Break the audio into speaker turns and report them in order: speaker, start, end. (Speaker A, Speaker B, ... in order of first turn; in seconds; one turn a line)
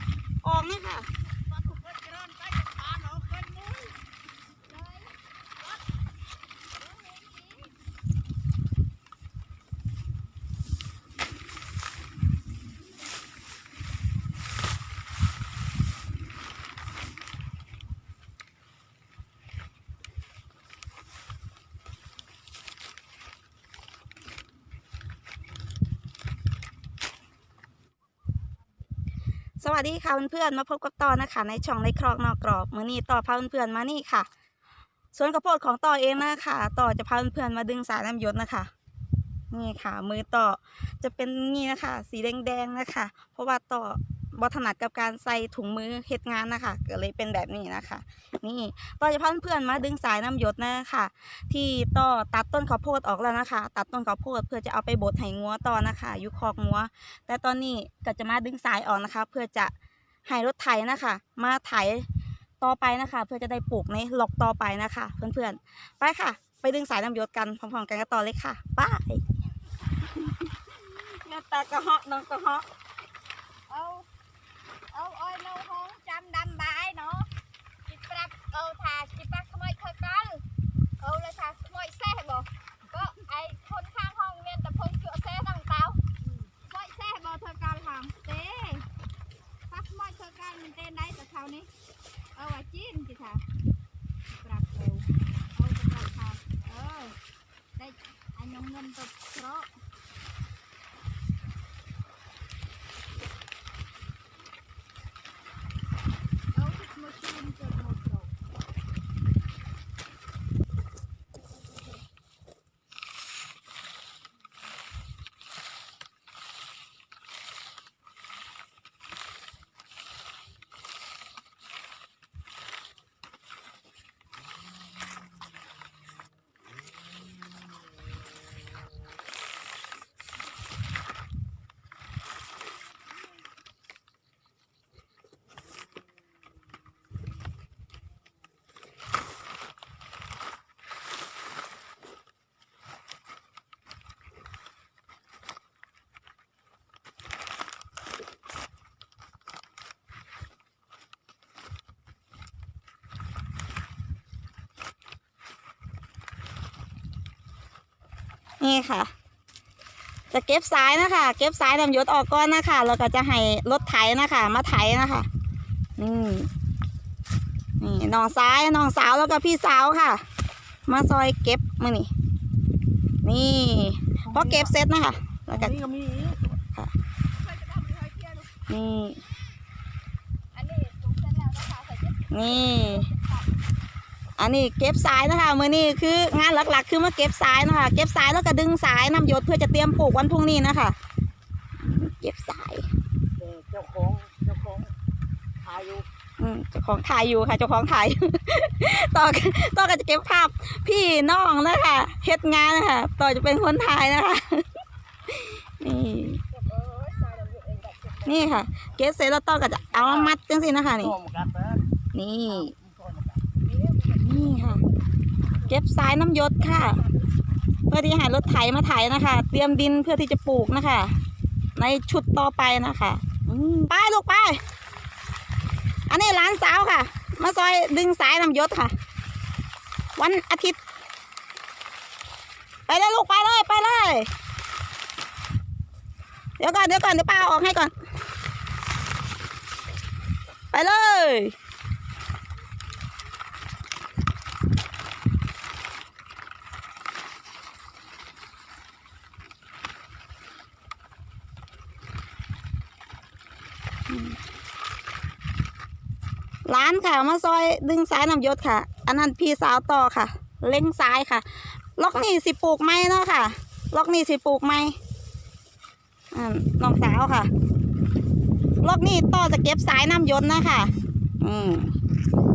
Speaker A: 0.4-1.1
Speaker B: 1.6-3.9
Speaker C: 4.7-5.1
Speaker C: 6.8-7.7
Speaker A: 29.6-34.3
Speaker A: 35.1-38.7
Speaker A: 39.5-59.7
Speaker A: 60.3-62.1
Speaker A: 62.6-69.2
Speaker A: 70.8-72.7
Speaker C: 73.7-74.1
Speaker C: 74.9-77.3
Speaker C: 77.9-80.4
Speaker C: 81.0-88.9
Speaker C: 89.7-91.7
Speaker C: 92.4-93.4
Speaker C: 94.3-97.2
Speaker C: 97.8-99.7
Speaker C: 106.6-108.3
Speaker A: 158.6-159.1
Speaker A: 160.3-165.3
Speaker A: 166.0-166.5
Speaker A: 167.8-170.2
Speaker A: 170.9-172.1
Speaker A: 173.2-175.9
Speaker B: 175.8-176.5
Speaker C: 177.4-178.5
Speaker A: 178.7-179.2
Speaker C: 180.5-183.5
Speaker A: 182.3-183.1
Speaker A: 184.4-191.0
Speaker A: 191.8-192.9
Speaker B: 193.4-194.9
Speaker B: 195.6-196.1
Speaker A: 196.4-204.7
Speaker A: 205.3-206.4
Speaker C: 206.5-208.5
Speaker A: 208.2-211.2
Speaker B: 211.2-211.8
Speaker A: 212.1-212.8
Speaker B: 212.9-213.4
Speaker C: 213.5-214.8
Speaker A: 214.1-214.8
Speaker A: 215.7-217.0
Speaker A: 217.9-221.2
Speaker A: 221.8-224.6
Speaker A: 226.1-228.9
Speaker A: 230.2-230.8
Speaker A: 232.9-234.3
Speaker A: 236.6-237.9
Speaker A: 240.7-241.6
Speaker A: 254.1-254.4
Speaker A: 256.7-265.0
Speaker A: 266.3-267.5
Speaker A: 268.8-271.9